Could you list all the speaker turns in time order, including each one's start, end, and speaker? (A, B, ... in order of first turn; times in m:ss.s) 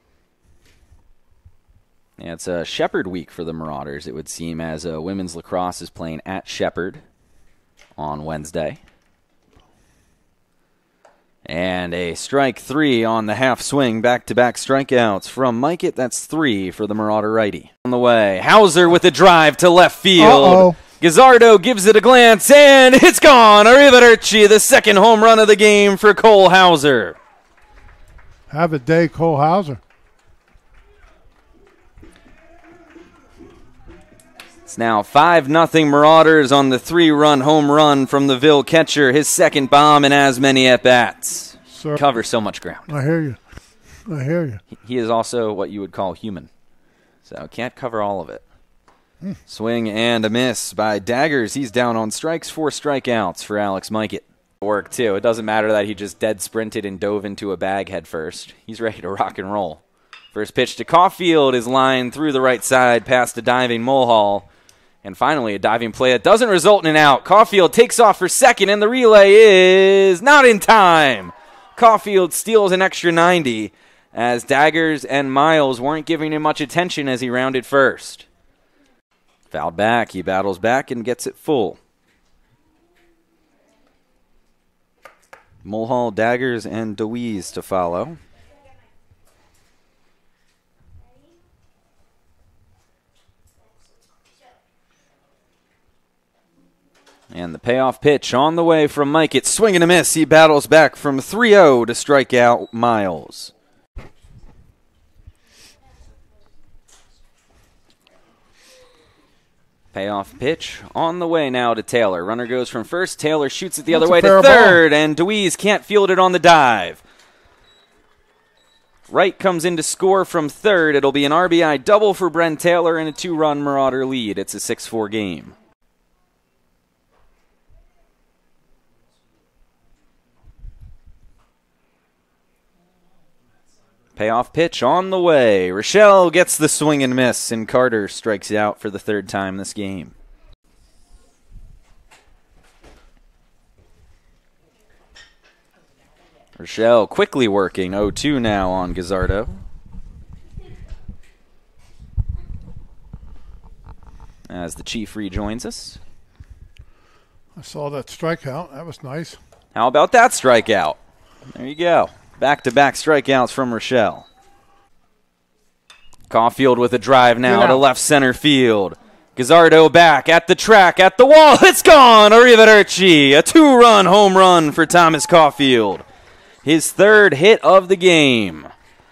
0:02.2-0:07.0 A
0:08.0-0:08.8 A
0:11.4-0:27.2 A
0:20.2-0:20.8 B
0:28.5-0:29.8 B
0:34.7-0:42.9 A
0:41.7-0:42.0 B
0:42.9-0:43.4 B
0:44.0-0:44.6 B
0:44.8-0:46.5 A
0:47.2-0:48.4 A
0:49.5-0:59.8 A
1:00.3-1:04.5 A
1:05.0-1:18.2 A
1:19.5-1:21.8 A
1:25.6-1:28.2 A
1:37.3-1:43.5 A
1:49.9-1:57.0 A
1:53.9-1:54.8 B
1:59.1-2:05.5 A
2:14.2-2:20.1 A
2:26.6-2:29.6 A
2:34.5-2:36.0 A
2:37.6-2:39.4 B
2:39.7-2:41.0 A
2:41.5-2:44.2 A
2:46.3-2:56.0 A
2:47.4-2:47.8 B
2:56.6-2:58.7 A